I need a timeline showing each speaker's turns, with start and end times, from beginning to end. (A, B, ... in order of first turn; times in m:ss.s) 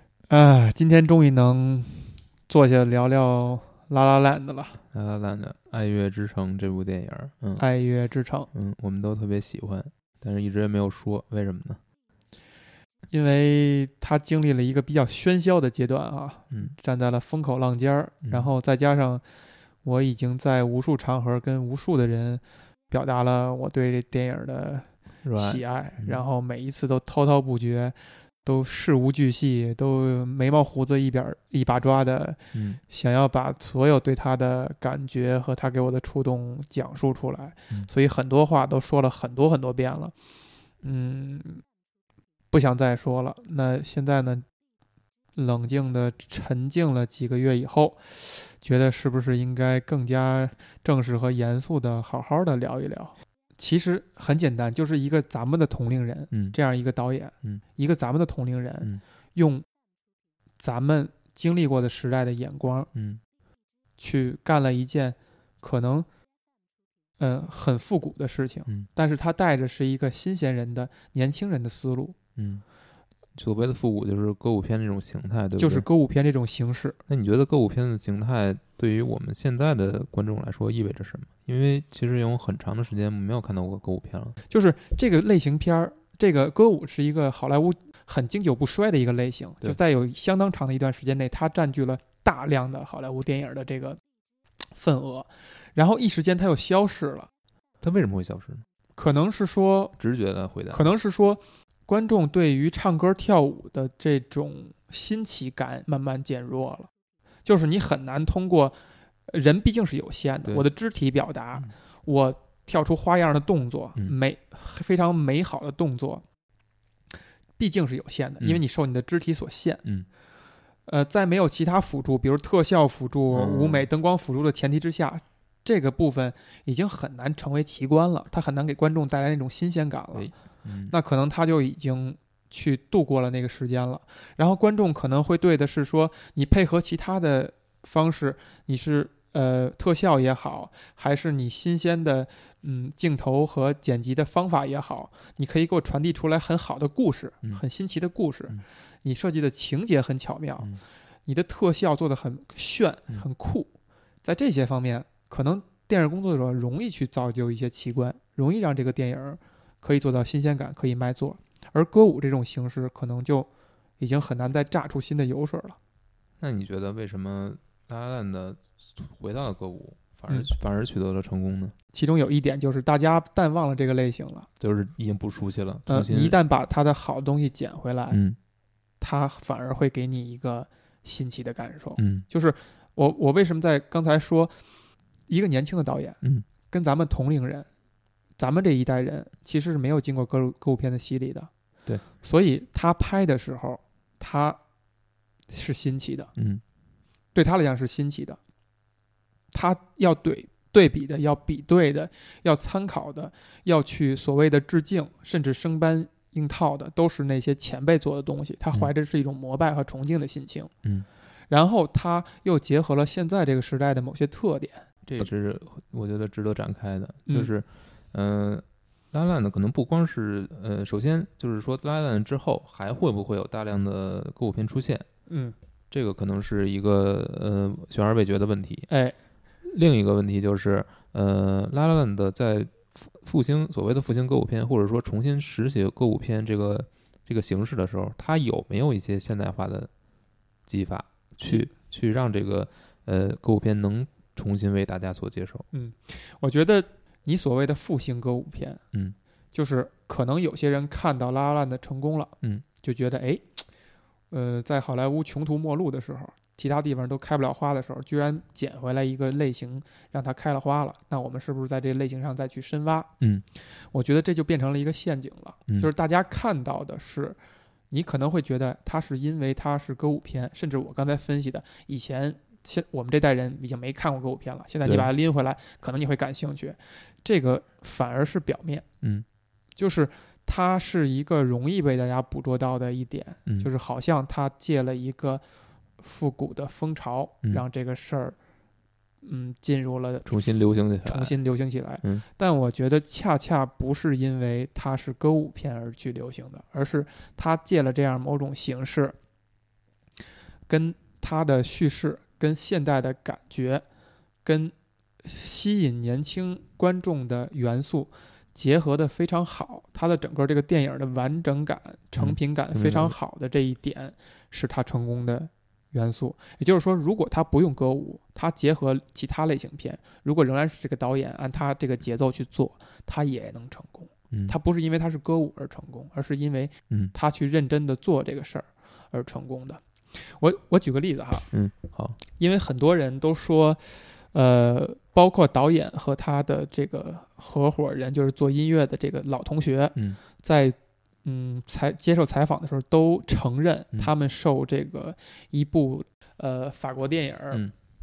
0:00.3-0:04.8 A
0:04.9-0:07.6 B
0:07.6-0:08.5 A
0:08.5-0:11.8 B
0:13.1-0:19.2 A
0:19.8-0:40.1 A
0:25.2-0:26.2 B
0:32.5-0:32.8 B
0:40.8-0:41.6 A
0:42.5-0:44.4 A
0:45.4-0:59.6 A
0:56.3-0:56.6 B
1:00.6-1:02.9 A
1:02.9-1:03.2 B
1:04.0-1:06.1 A
1:07.2-1:12.2 A
1:12.4-1:12.6 B
1:13.3-1:15.8 B
1:15.6-1:17.0 A
1:17.1-1:24.4 B
1:24.5-1:34.0 A
1:34.7-1:37.3 A
1:37.8-1:38.6 B
1:39.0-1:40.0 A
1:40.0-1:40.8 B
1:40.7-1:46.9 A
1:47.4-1:48.8 A
1:49.3-1:56.2 A
1:57.6-1:59.8 A
2:00.9-2:10.3 A
2:03.3-2:03.9 B
2:10.1-2:10.9 B
2:10.9-2:33.7 A
2:34.2-2:45.8 A
2:46.4-2:51.7 B
2:51.9-2:54.5 A
2:54.6-2:56.4 B
2:55.9-2:58.2 A
2:58.1-2:58.4 B
2:59.0-3:04.5 A
3:02.0-3:02.2 B
3:05.3-3:07.7 A
3:08.4-3:11.5 A
3:12.2-3:14.6 A
3:15.5-3:16.3 A
3:16.4-3:16.6 B
3:17.3-3:18.4 A
3:19.5-3:30.7 A
3:31.5-3:34.8 A
3:35.0-3:45.0 B
3:45.3-3:45.5 A
3:45.9-3:48.9 B
3:48.9-3:49.1 A
3:49.6-3:59.9 B
4:00.7-4:05.6 B
4:05.7-4:08.8 A
4:09.5-4:13.4 A
4:14.3-4:23.1 A
4:23.2-4:23.4 B
4:23.9-4:27.4 A
4:27.9-4:38.8 A
4:34.8-4:35.1 B
4:39.8-4:45.4 A
4:46.0-4:48.4 A
4:49.2-4:50.5 A
4:50.2-4:51.4 B
4:51.0-4:59.2 A
5:00.7-5:03.8 A
5:04.4-5:31.5 A
5:12.2-5:13.1 B
5:31.5-5:32.2 B
5:32.3-5:47.7 A